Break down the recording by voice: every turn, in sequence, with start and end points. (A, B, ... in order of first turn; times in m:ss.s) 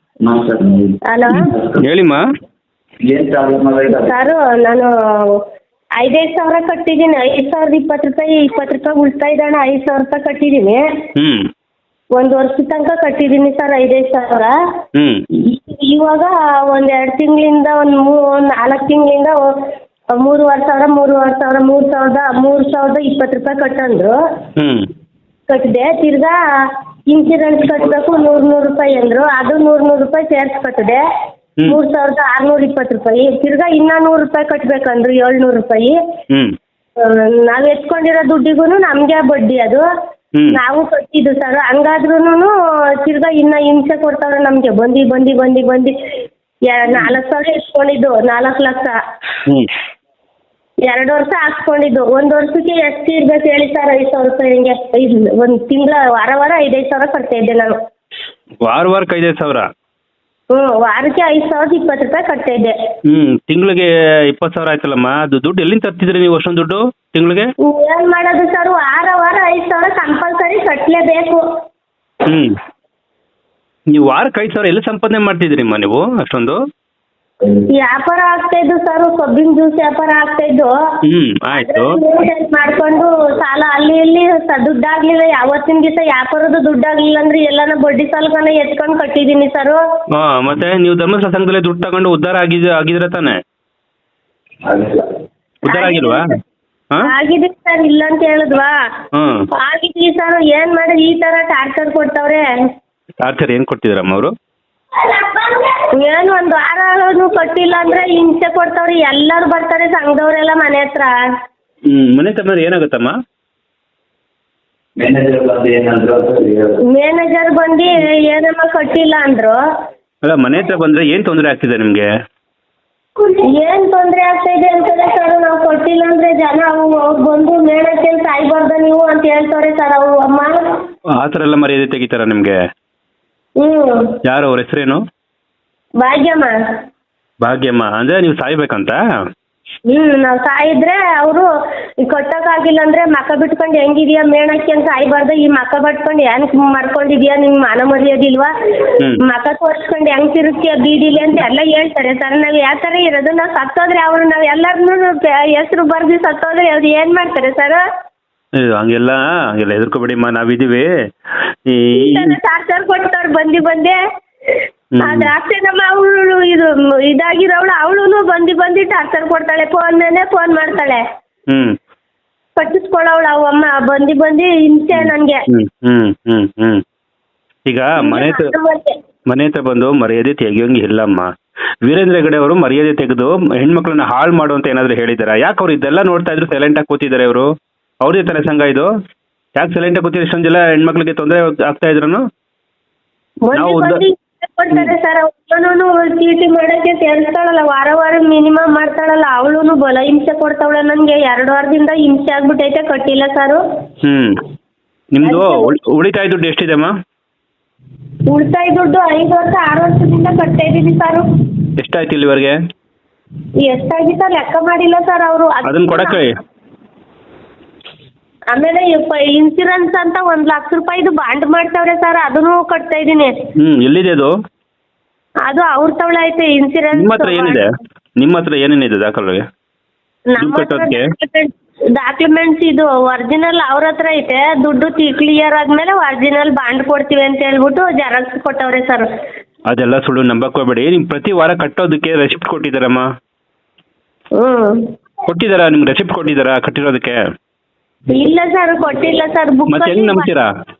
0:00.2-0:01.8 A
0:01.1-0:01.6 B
0:01.8-0:02.2 C
0:03.0-0:04.2 A
0:04.0-0:05.4 B
0:06.0-0:10.8 B
0:11.2-0:11.5 C
0:12.2-0:14.5 B
0:15.0-0:15.2 C
0:15.5-0:19.4 B
0:20.2-0:24.2 B
0:24.6-0:24.9 C
0:25.5-0:26.4 B
0:27.1-0:31.0 B
0:31.7-0:36.0 B
0:37.0-0:39.8 B
0:40.5-0:42.5 B
0:43.0-0:45.9 B
0:46.7-0:49.0 B
0:50.9-0:57.8 B
0:58.6-0:59.7 C
1:00.5-1:02.8 B
1:03.1-1:07.5 C
1:07.6-1:11.4 B
1:12.3-1:12.5 C
1:13.9-1:16.6 C
1:17.6-1:20.7 B
1:21.0-1:21.9 C
1:21.5-1:29.8 B
1:30.1-1:33.4 C
1:34.7-1:35.0 A
1:35.6-1:36.3 C
1:35.7-1:36.4 B
1:37.1-1:38.7 B
1:39.1-1:39.4 C
1:39.5-1:42.4 B
1:43.2-1:44.3 C
1:45.0-1:51.1 B
1:51.9-1:53.1 C
1:55.0-1:56.8 A
1:56.9-1:59.6 B
2:00.2-2:02.1 C
2:03.2-2:10.8 B
2:11.2-2:12.6 C
2:13.6-2:14.1 B
2:14.2-2:15.0 C
2:16.0-2:16.5 B
2:17.4-2:19.0 C
2:19.9-2:21.5 B
2:22.0-2:37.8 B
2:38.6-2:40.9 C
2:41.7-2:42.4 C
2:42.0-2:44.0 B
2:45.0-2:45.3 C
2:45.0-2:51.0 B
2:51.5-2:51.8 C
2:52.6-2:55.4 B
2:54.9-2:56.8 C
2:57.7-2:58.5 C
2:58.0-2:59.0 B
2:59.3-3:01.3 C
3:01.8-3:07.5 C
3:08.0-3:08.9 C
3:09.6-3:12.2 C
3:13.5-3:23.6 B
3:13.5-3:14.0 C
3:24.0-3:24.4 C
3:25.1-3:26.9 C
3:25.2-3:25.7 B
3:28.3-3:31.3 B
3:31.8-3:32.6 C
3:33.6-3:36.2 B
3:35.7-3:36.3 C
3:38.5-3:43.3 B
3:43.6-3:44.3 C
3:45.5-3:47.6 B
3:46.9-3:47.7 C
3:48.2-3:49.4 C
3:50.3-3:59.1 B
3:50.4-3:51.1 C
3:59.7-4:03.1 C
4:04.4-4:04.8 B
4:05.3-4:07.2 C
4:08.1-4:10.3 B
4:09.7-4:10.5 C